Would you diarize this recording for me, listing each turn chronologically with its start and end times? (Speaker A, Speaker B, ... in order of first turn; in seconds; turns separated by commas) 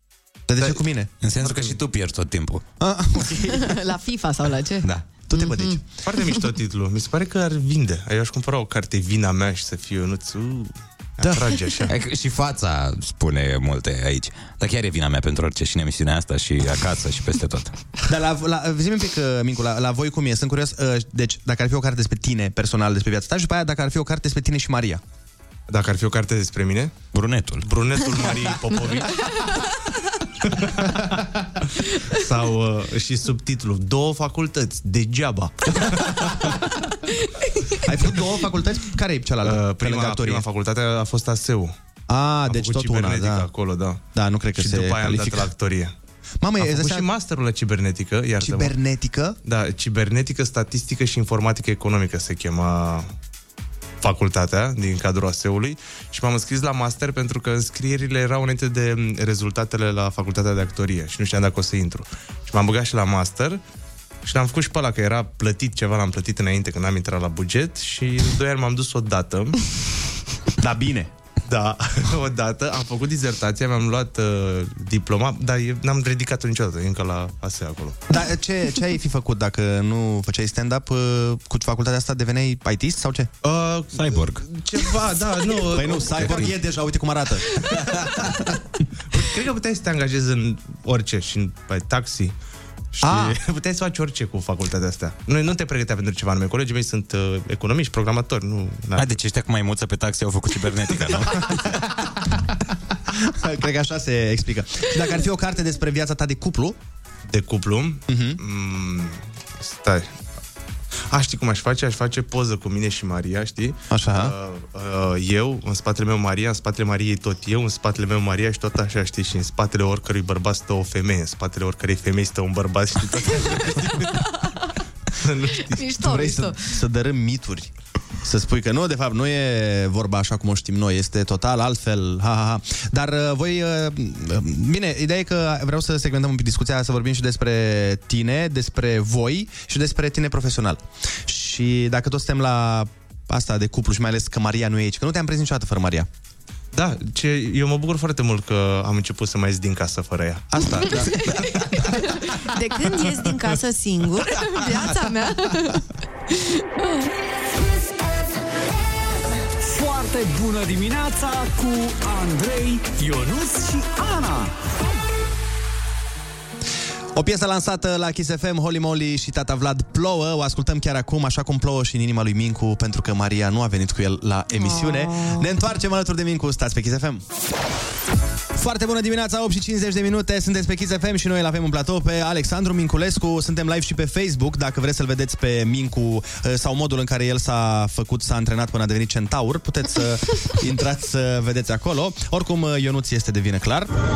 Speaker A: 0.5-1.1, Speaker B: 1.2-2.6, Speaker C: 1.4-1.8, Speaker A: 2.8-3.7, Speaker D: 3.5-5.8, Speaker B: 4.8-5.2, Speaker A: 5.3-5.8, Speaker C: 6.0-11.9, Speaker B: 11.9-17.7, Speaker A: 18.1-25.0, Speaker C: 25.7-26.9, Speaker B: 27.1-27.7, Speaker C: 27.6-29.1, Speaker C: 30.5-31.2, Speaker C: 32.1-36.5, Speaker A: 37.8-40.4, Speaker C: 39.4-41.7, Speaker A: 42.1-43.5, Speaker C: 42.5-44.0, Speaker A: 44.1-45.5, Speaker C: 44.6-45.9, Speaker A: 46.4-47.1, Speaker C: 46.6-48.7, Speaker A: 48.4-49.4, Speaker C: 49.4-53.1, Speaker C: 54.0-63.6, Speaker C: 64.2-69.6, Speaker A: 70.6-71.1, Speaker C: 71.5-78.0, Speaker A: 78.1-83.3, Speaker C: 83.4-86.5, Speaker B: 84.0-84.4, Speaker A: 85.7-88.1, Speaker C: 89.1-92.3, Speaker C: 92.9-99.2, Speaker A: 93.0-93.4, Speaker B: 99.0-101.6, Speaker A: 103.1-106.8, Speaker C: 107.3-110.1, Speaker A: 108.1-108.4, Speaker C: 111.1-124.1, Speaker A: 113.9-114.3, Speaker C: 125.2-125.8, Speaker D: 125.6-126.6, Speaker A: 126.0-127.7, Speaker A: 128.2-146.1, Speaker C: 146.7-150.8, Speaker A: 150.5-151.3, Speaker D: 150.8-157.1, Speaker C: 153.2-153.6, Speaker E: 159.6-164.6, Speaker A: 167.2-177.2, Speaker D: 174.5-175.6, Speaker A: 178.6-193.9